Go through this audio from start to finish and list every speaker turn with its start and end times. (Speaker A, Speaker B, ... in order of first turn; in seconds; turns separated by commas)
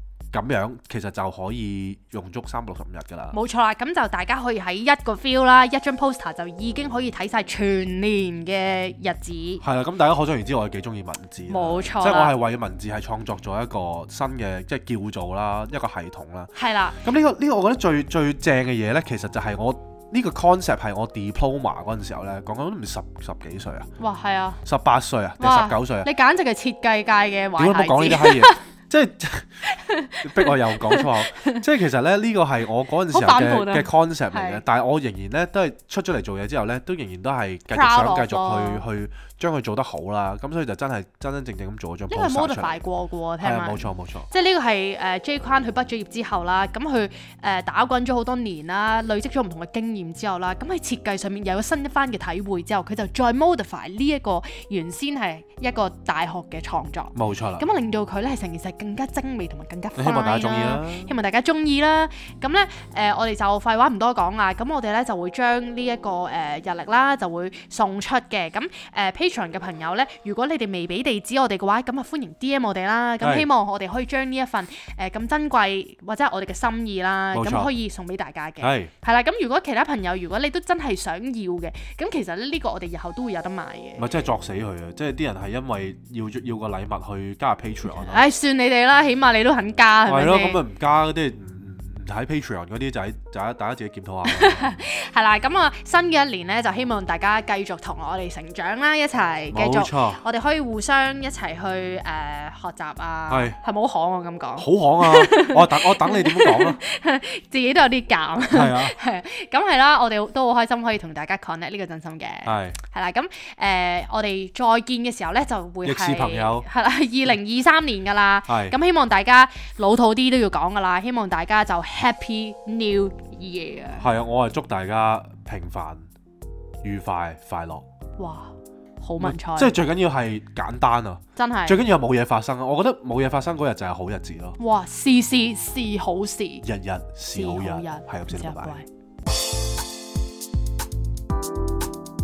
Speaker A: 0.3-3.4, Speaker B: 3.3-9.6, Speaker A: 9.6-16.5, Speaker B: 11.5-12.4, Speaker B: 16.6-17.0, Speaker A: 17.0-23.9, Speaker B: 24.0-24.6, Speaker A: 24.6-26.1, Speaker B: 25.4-28.6, Speaker A: 27.6-29.5, Speaker B: 29.6-31.6, Speaker A: 30.2-42.8, Speaker B: 33.1-34.6, Speaker B: 37.7-38.8, Speaker B: 42.1-84.1, Speaker A: 43.4-44.3, Speaker A: 57.1-57.7, Speaker A: 60.0-61.1, Speaker A: 73.2-73.5, Speaker A: 77.3-77.7, Speaker A: 78.6-78.9, Speaker A: 84.0-88.2, Speaker B: 87.9-90.6, Speaker A: 90.1-94.7, Speaker B: 94.3-124.1, Speaker A: 99.5-100.2, Speaker A: 103.3-103.6, Speaker A: 104.6-106.8, Speaker A: 108.5-109.0, Speaker A: 112.5-112.8, Speaker A: 115.8-116.7, Speaker A: 118.5-118.8, Speaker A: 124.0-126.1, Speaker A: 126.8-127.8, Speaker B: 128.2-129.8, Speaker A: 129.2-134.6, Speaker B: 131.4-131.8, Speaker B: 134.6-136.7, Speaker A: 136.6-138.8, Speaker B: 137.3-138.9